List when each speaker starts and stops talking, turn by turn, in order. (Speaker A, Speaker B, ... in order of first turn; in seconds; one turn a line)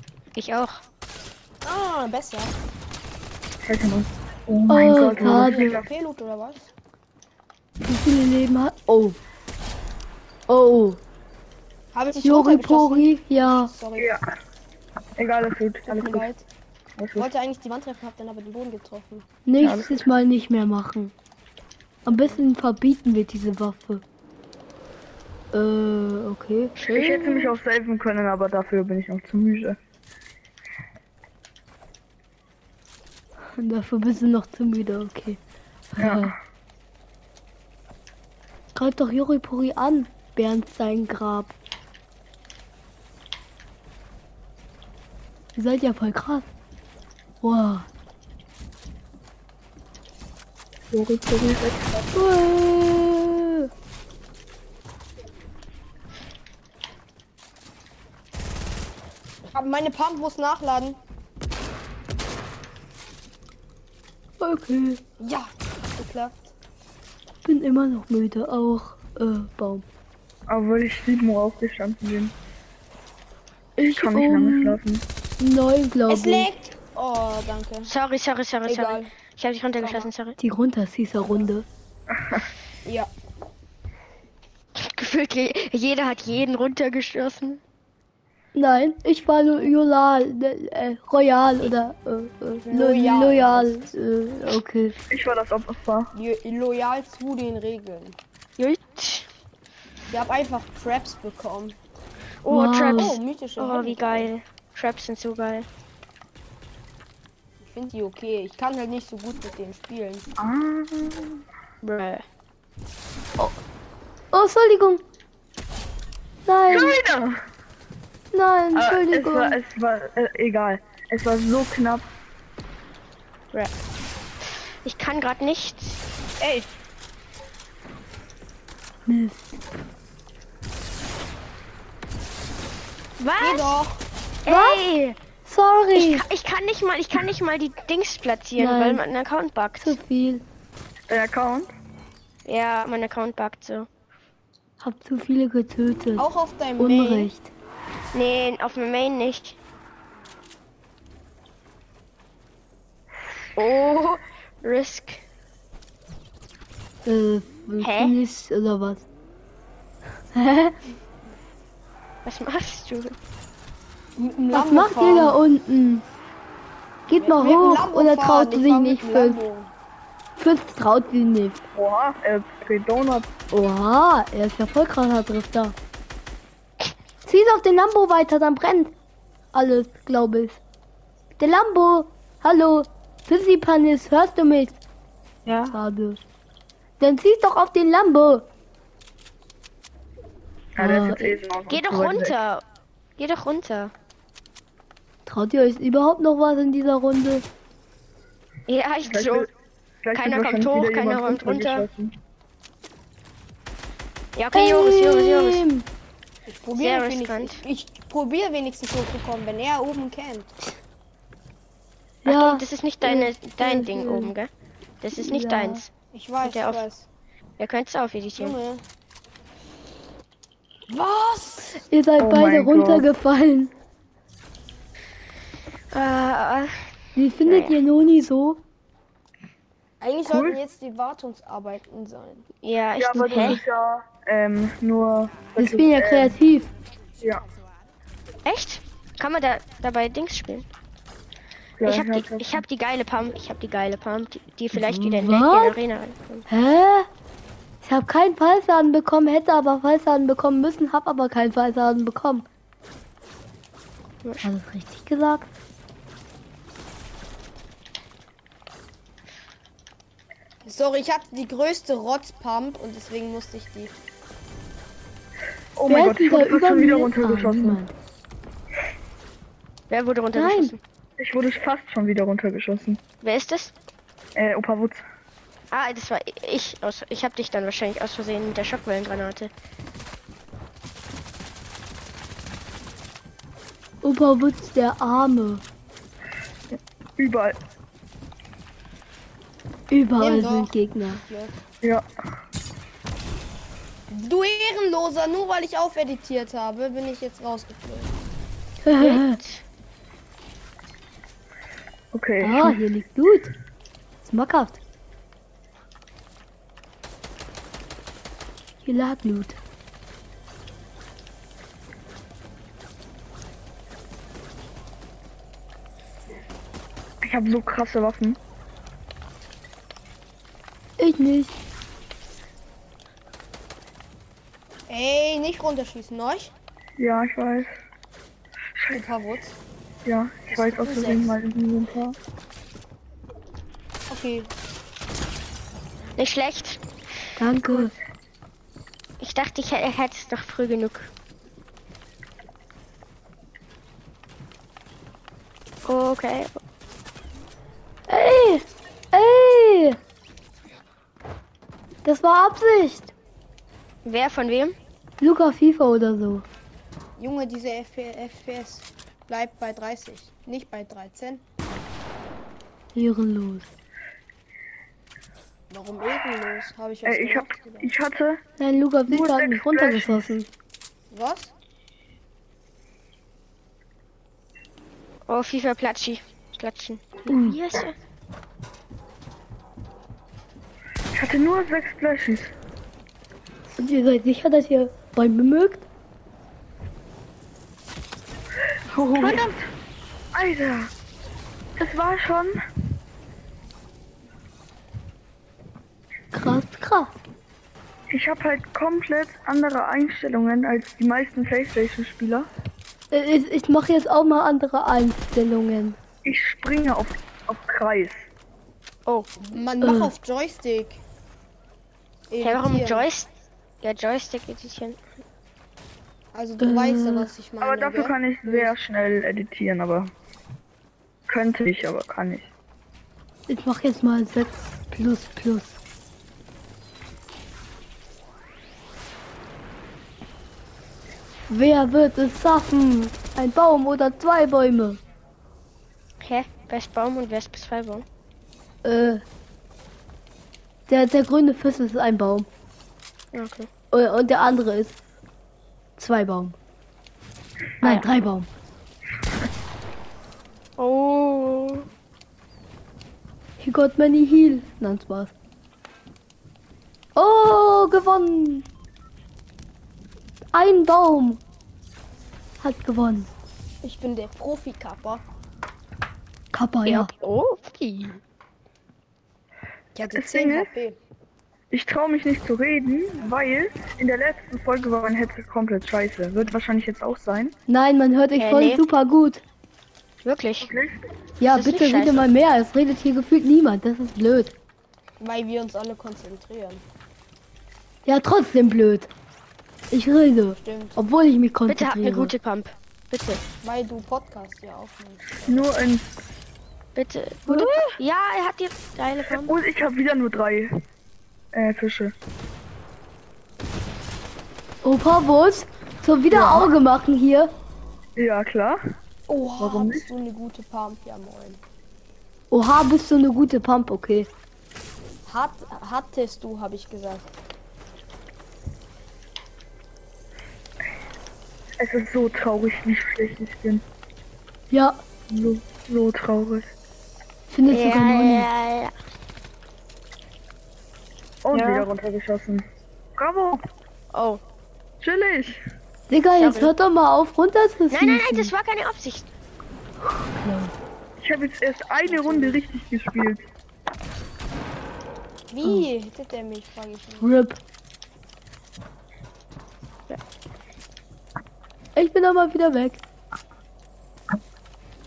Speaker A: 0.3-0.8
Speaker B: 1.6-2.6
Speaker C: 3.6-5.9
Speaker D: 4.7-5.8
Speaker B: 4.9-6.7
Speaker D: 7.9-9.2
Speaker D: 10.5-11.0
Speaker B: 11.9-14.1
Speaker D: 12.2-13.7
Speaker C: 14.0-14.2
Speaker C: 15.2-16.3
Speaker B: 15.9-16.5
Speaker C: 17.0-17.3
Speaker B: 17.1-19.3
Speaker D: 19.5-21.1
Speaker C: 19.6-20.1
Speaker D: 22.1-24.0
Speaker B: 22.1-22.4
Speaker D: 25.5-26.7
Speaker A: 26.8-27.5
Speaker C: 26.9-29.8
Speaker D: 33.6-35.4
Speaker D: 35.9-36.4
Speaker C: 36.0-36.4
Speaker D: 38.8-41.5
Speaker D: 45.6-46.5
Speaker D: 47.4-47.9
Speaker C: 50.9-52.0
Speaker D: 52.1-53.7
Speaker B: 59.5-61.0
Speaker D: 64.4-65.0
Speaker B: 65.2-66.5
Speaker D: 67.4-69.8
Speaker C: 70.5-72.3
Speaker D: 73.8-74.8
Speaker C: 73.8-75.0
Speaker D: 75.4-76.5
Speaker B: 76.1-77.9
Speaker A: 77.9-80.4
Speaker B: 78.7-79.1
Speaker B: 79.8-80.1
Speaker D: 80.4-81.7
Speaker C: 82.1-82.5
Speaker B: 82.8-83.1
Speaker A: 84.8-87.6
Speaker D: 88.5-95.0
Speaker B: 92.7-93.9
Speaker C: 95.1-96.1
Speaker B: 96.2-98.2
Speaker A: 98.6-99.3
Speaker B: 100.1-101.8
Speaker A: 102.4-105.7
Speaker D: 102.5-103.2
Speaker B: 102.9-104.3
Speaker B: 107.6-110.3
Speaker C: 110.4-111.4
Speaker A: 111.8-112.2
Speaker D: 114.3-115.0
Speaker D: 116.5-117.0
Speaker C: 116.7-117.4
Speaker D: 118.3-119.6
Speaker C: 118.7-122.1
Speaker A: 124.4-126.0
Speaker D: 129.1-129.5
Speaker A: 133.2-133.8
Speaker B: 133.4-134.0
Speaker A: 134.4-135.2
Speaker D: 134.5-134.8
Speaker D: 135.4-136.2
Speaker A: 135.9-140.0
Speaker D: 138.6-139.0
Speaker D: 139.8-140.4
Speaker C: 141.1-141.7
Speaker A: 142.4-143.9
Speaker D: 144.8-146.3
Speaker B: 146.2-147.3
Speaker D: 146.8-147.5
Speaker A: 148.1-149.6
Speaker A: 153.6-155.2
Speaker D: 157.1-159.1
Speaker A: 157.8-158.2
Speaker D: 160.3-160.8
Speaker A: 162.2-163.2
Speaker B: 164.2-165.4
Speaker D: 164.5-166.1
Speaker D: 167.1-169.4
Speaker B: 167.1-169.7
Speaker D: 170.4-171.6
Speaker C: 171.7-173.3
Speaker D: 173.5-175.8
Speaker D: 177.2-178.9
Speaker D: 179.5-180.6
Speaker D: 181.4-184.8
Speaker D: 185.7-186.2
Speaker D: 187.0-188.5
Speaker C: 190.8-192.4
Speaker D: 190.8-191.4
Speaker A: 191.7-192.6
Speaker A: 193.2-193.9
Speaker D: 195.3-197.4
Speaker A: 198.7-199.5
Speaker C: 199.1-199.5
Speaker C: 200.0-202.2
Speaker A: 200.1-201.9
Speaker A: 204.4-205.6
Speaker D: 204.5-205.9
Speaker B: 206.5-210.5
Speaker A: 206.8-207.6
Speaker D: 212.2-214.3
Speaker A: 212.2-214.5
Speaker A: 215.0-215.9
Speaker D: 215.2-215.8
Speaker B: 216.1-217.1
Speaker A: 216.4-216.9
Speaker A: 217.6-218.6
Speaker B: 218.4-218.8
Speaker B: 220.9-221.8
Speaker D: 221.9-223.7
Speaker C: 222.2-223.1
Speaker A: 225.9-226.8
Speaker D: 227.2-228.6
Speaker A: 227.4-227.8
Speaker B: 230.0-232.5
Speaker C: 230.3-230.6
Speaker A: 232.6-233.6
Speaker C: 233.0-236.4
Speaker D: 233.2-233.6
Speaker D: 235.6-236.7
Speaker A: 238.4-240.7
Speaker C: 241.8-242.6
Speaker A: 241.8-246.5
Speaker D: 244.7-245.8
Speaker D: 246.5-247.1
Speaker D: 247.8-252.5
Speaker A: 254.2-254.5
Speaker D: 254.4-255.5
Speaker B: 260.6-263.9
Speaker C: 265.8-267.8
Speaker D: 265.9-267.9
Speaker A: 269.9-270.8
Speaker D: 270.4-270.8
Speaker C: 271.2-273.0
Speaker A: 273.2-273.7
Speaker C: 274.4-275.0
Speaker A: 275.7-279.5
Speaker D: 284.0-285.6
Speaker C: 286.7-287.6
Speaker D: 289.9-291.2
Speaker B: 290.2-291.6
Speaker B: 294.1-298.2
Speaker D: 298.8-299.4
Speaker A: 299.0-299.6
Speaker C: 302.1-302.8
Speaker D: 302.4-303.5
Speaker D: 304.2-304.8
Speaker D: 308.9-309.6
Speaker C: 317.2-318.4
Speaker D: 321.0-321.6
Speaker B: 324.9-326.5
Speaker C: 327.0-327.7
Speaker C: 328.8-329.0
Speaker B: 328.9-329.6
Speaker C: 330.1-332.2
Speaker B: 330.5-331.4
Speaker B: 334.1-334.5
Speaker A: 336.2-336.8
Speaker D: 337.4-337.9
Speaker A: 339.2-341.1
Speaker A: 345.8-346.6
Speaker D: 348.1-350.0
Speaker D: 352.1-353.1
Speaker A: 354.1-354.8
Speaker D: 355.2-356.5
Speaker B: 357.2-361.4
Speaker D: 362.9-363.7
Speaker B: 365.7-367.9
Speaker C: 367.1-368.4
Speaker D: 368.6-370.5
Speaker C: 369.1-370.3
Speaker B: 371.1-371.5
Speaker A: 375.3-378.0
Speaker D: 377.3-377.6
Speaker C: 381.1-382.5
Speaker D: 383.8-385.9
Speaker C: 388.9-389.7
Speaker C: 390.3-390.9
Speaker C: 391.8-392.6
Speaker D: 396.3-397.1
Speaker C: 398.1-402.5
Speaker D: 403.1-406.0
Speaker C: 406.2-408.3
Speaker B: 409.4-411.0
Speaker D: 409.8-410.1
Speaker B: 412.3-413.1
Speaker A: 412.4-413.3
Speaker A: 413.8-415.0
Speaker B: 416.3-418.7
Speaker D: 416.6-417.3
Speaker C: 417.6-420.1
Speaker C: 421.3-422.5
Speaker D: 423.5-425.8
Speaker D: 431.5-435.0
Speaker A: 436.2-438.1
Speaker D: 438.8-439.2
Speaker D: 440.9-442.5
Speaker A: 443.3-443.7
Speaker D: 443.9-445.0
Speaker D: 446.0-446.6
Speaker D: 447.8-448.5
Speaker A: 447.8-448.1
Speaker A: 450.8-451.9
Speaker D: 453.6-455.3
Speaker D: 457.2-458.7
Speaker D: 460.5-461.4
Speaker D: 462.6-463.3
Speaker B: 463.8-465.2
Speaker D: 466.5-467.1
Speaker A: 466.9-468.2
Speaker B: 469.9-471.0
Speaker C: 470.1-470.7
Speaker C: 471.7-477.5
Speaker D: 477.7-479.4
Speaker A: 478.4-478.8
Speaker A: 480.2-480.7
Speaker C: 480.6-481.0
Speaker D: 481.4-484.5
Speaker A: 481.5-482.3
Speaker B: 485.2-486.8
Speaker D: 488.1-489.1
Speaker D: 489.9-492.3
Speaker B: 490.6-491.0
Speaker A: 491.7-493.4
Speaker B: 493.6-495.7
Speaker C: 495.4-496.1
Speaker A: 497.0-499.6
Speaker D: 497.5-497.9
Speaker C: 499.3-500.8
Speaker C: 501.5-502.1
Speaker D: 504.8-507.5
Speaker C: 506.3-506.7
Speaker C: 508.2-508.8
Speaker B: 509.3-511.6
Speaker C: 509.6-510.1
Speaker D: 512.5-514.3
Speaker B: 515.3-517.3
Speaker C: 521.8-523.8
Speaker D: 524.7-525.0
Speaker C: 525.3-526.7
Speaker D: 527.5-528.5
Speaker A: 527.7-528.9
Speaker C: 531.4-533.6
Speaker A: 534.1-534.4
Speaker C: 535.0-535.6
Speaker D: 536.1-538.5
Speaker A: 536.3-536.7
Speaker A: 537.9-539.3
Speaker D: 540.0-540.7
Speaker C: 541.2-543.4
Speaker B: 542.0-542.6
Speaker B: 545.5-547.4
Speaker D: 547.2-547.6
Speaker D: 552.0-553.0